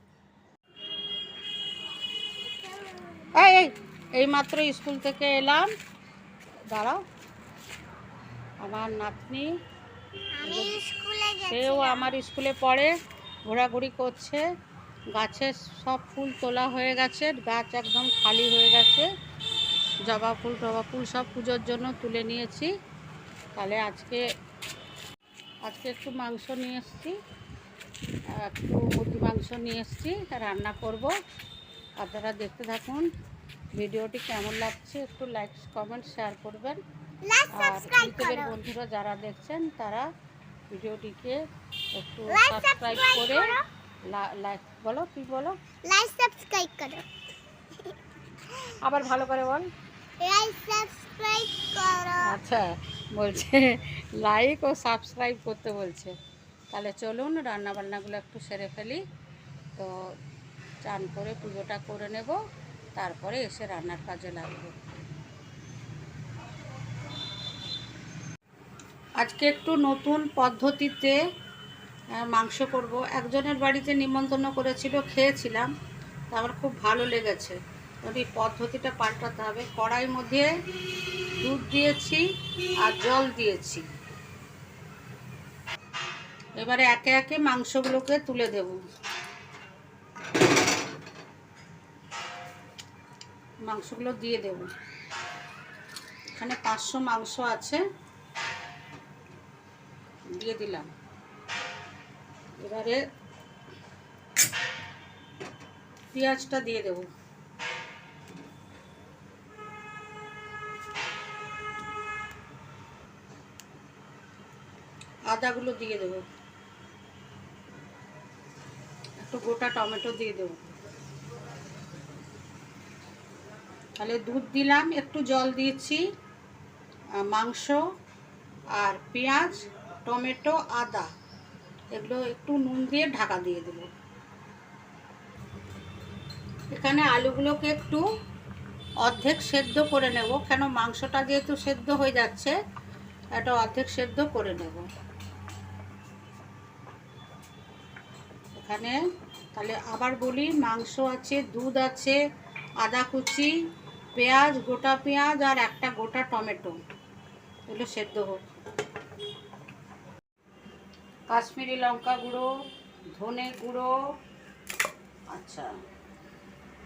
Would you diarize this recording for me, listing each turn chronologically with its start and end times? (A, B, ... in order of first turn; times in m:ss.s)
0:02.7-0:03.3 A
0:03.3-0:05.7 B
0:06.7-0:07.0 B
0:08.6-0:09.5 B
0:10.3-0:12.1 A
0:10.4-0:10.8 B
0:11.4-0:12.9 B
0:13.5-0:14.4 B
0:15.1-0:19.1 B
0:20.0-0:22.7 B
0:23.6-0:24.2 B
0:25.7-0:27.1 B
0:28.4-0:31.1 B
0:32.0-0:33.1 B
0:33.8-0:36.8 B
0:37.2-0:38.5 A
0:37.5-0:40.1 B
0:40.7-0:41.4 B
0:41.9-0:43.5 B
0:42.3-0:43.6 A
0:44.1-0:45.6 B
0:45.8-0:47.1 A
0:48.8-0:49.7 B
0:50.2-0:52.4 A
0:52.2-0:56.1 B
0:56.7-0:59.0 B
0:59.8-1:00.1 B
1:00.8-1:02.4 B
1:03.0-1:04.8 B
1:09.2-1:11.2 B
1:12.2-1:15.7 B
1:16.3-1:20.5 B
1:21.4-1:22.2 B
1:22.8-1:23.8 B
1:26.6-1:28.8 B
1:33.6-1:34.7 B
1:36.3-1:37.8 B
1:40.4-1:40.9 B
1:42.6-1:43.0 B
1:46.1-1:47.1 B
1:55.3-1:56.2 B
1:59.2-2:00.6 B
2:04.0-2:06.0 B
2:07.3-2:07.8 B
2:08.8-2:11.1 B
2:11.9-2:13.9 B
2:16.7-2:18.0 B
2:19.0-2:22.6 B
2:23.4-2:24.9 B
2:28.6-2:29.0 B
2:29.5-2:32.2 B
2:32.8-2:33.5 B
2:34.2-2:36.8 B
2:37.7-2:38.4 B
2:41.3-2:42.5 B
2:43.1-2:43.9 B
2:45.3-2:45.7 B